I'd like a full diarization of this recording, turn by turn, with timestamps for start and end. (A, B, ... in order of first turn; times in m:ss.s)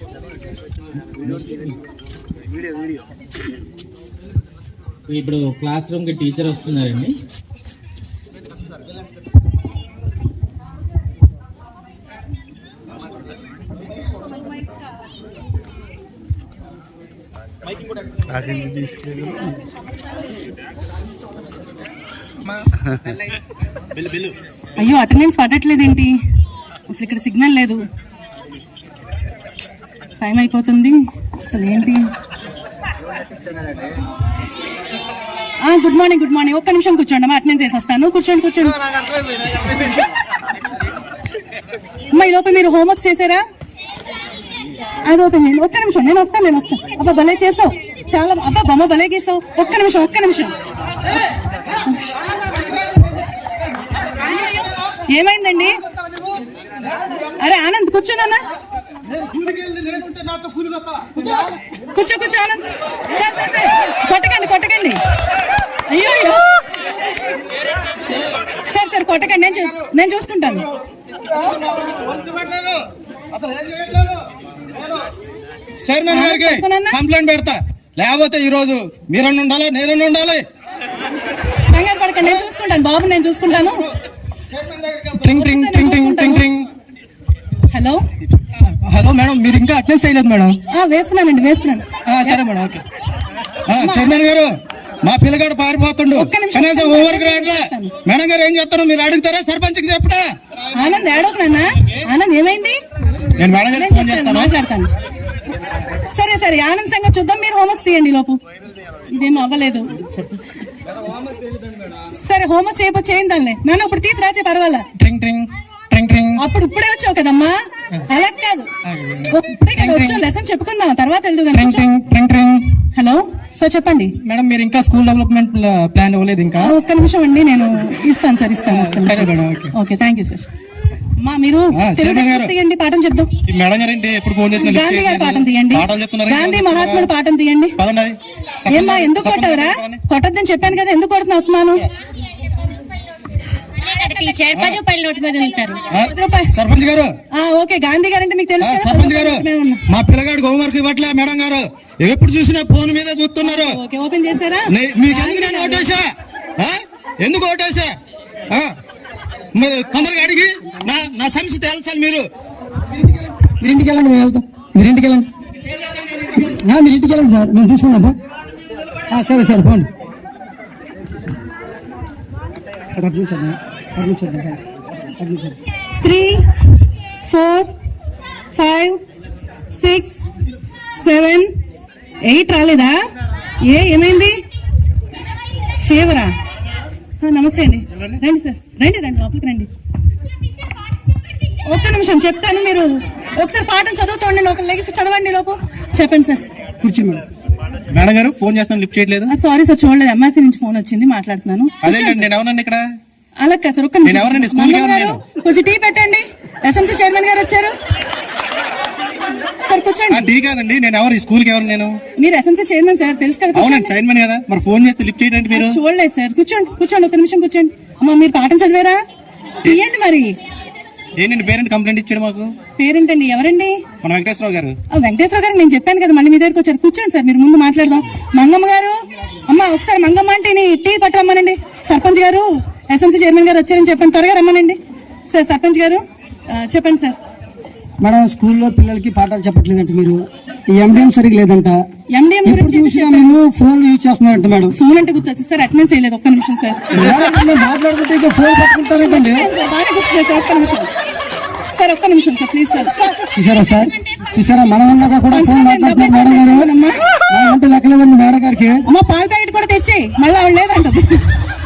0:01.0-0:01.8 A
0:05.1-0:07.2 A
0:24.8-0:26.1 B
0:26.9-0:27.8 B
0:30.2-0:32.0 B
0:35.6-0:38.8 B
0:42.1-0:43.4 B
0:45.0-0:50.5 B
0:51.8-0:52.2 B
0:54.2-0:55.8 B
0:57.4-0:58.4 B
0:59.2-1:01.2 C
1:01.9-1:05.0 B
1:05.9-1:06.4 B
1:08.7-1:10.7 B
1:11.4-1:12.8 C
1:13.3-1:14.2 C
1:15.8-1:20.4 C
1:16.1-1:17.0 B
1:21.7-1:23.8 B
1:24.5-1:25.2 C
1:25.2-1:26.7 D
1:25.3-1:26.4 B
1:27.7-1:28.0 B
1:28.6-1:30.6 D
1:30.7-1:32.4 B
1:32.0-1:32.8 D
1:33.7-1:34.5 C
1:33.8-1:34.2 B
1:35.0-1:40.2 C
1:36.1-1:37.9 B
1:40.7-1:42.8 B
1:43.4-1:44.5 C
1:43.7-1:44.9 B
1:46.1-1:48.4 B
1:49.1-1:49.9 B
1:52.2-1:54.8 B
1:55.0-1:56.4 D
1:56.4-1:57.6 B
1:58.1-2:01.8 B
1:58.8-2:00.2 D
2:01.5-2:02.8 D
2:02.9-2:04.1 B
2:04.2-2:06.7 D
2:06.6-2:10.4 B
2:08.7-2:09.7 D
2:11.2-2:13.3 B
2:11.7-2:12.5 C
2:13.5-2:17.1 C
2:14.6-2:17.8 B
2:17.8-2:20.0 C
2:18.7-2:21.8 B
2:23.8-2:25.8 E
2:24.5-2:24.8 C
2:25.9-2:27.1 C
2:26.0-2:26.5 B
2:27.3-2:29.8 B
2:28.6-2:33.8 C
2:33.4-2:35.9 B
2:34.7-2:36.0 C
2:36.6-2:38.0 C
2:39.5-2:42.2 C
2:42.9-2:45.2 F
2:45.7-2:46.4 C
2:46.4-2:48.1 F
2:49.1-2:49.9 F
2:52.9-2:54.6 F
2:55.2-2:55.6 F
2:56.0-2:56.5 B
2:57.2-2:57.7 B
2:58.5-2:59.0 B
2:59.7-3:00.2 B
3:01.0-3:01.5 B
3:02.2-3:03.0 B
3:03.6-3:04.4 B
3:05.8-3:06.3 B
3:07.2-3:09.7 B
3:11.7-3:16.5 B
3:16.8-3:17.2 F
3:17.9-3:19.3 C
3:19.3-3:22.3 B
3:21.8-3:22.8 C
3:23.4-3:27.7 B
3:24.0-3:25.2 C
3:29.6-3:30.3 B
3:30.1-3:32.0 C
3:32.2-3:33.9 B
3:33.5-3:35.8 C
3:35.5-3:39.0 B
3:39.6-3:40.4 B
3:41.2-3:42.5 C
3:42.8-3:43.7 B
3:44.0-3:44.8 C
3:44.9-3:49.0 B
3:49.5-3:57.2 B
3:58.0-4:01.8 F
4:02.1-4:03.4 B
4:02.4-4:04.7 F
4:04.7-4:06.8 B
4:06.9-4:09.5 F
4:08.9-4:10.9 B
4:11.7-4:13.0 B
4:13.3-4:16.7 F
4:15.3-4:17.0 B
4:17.3-4:18.8 F
4:18.9-4:21.2 B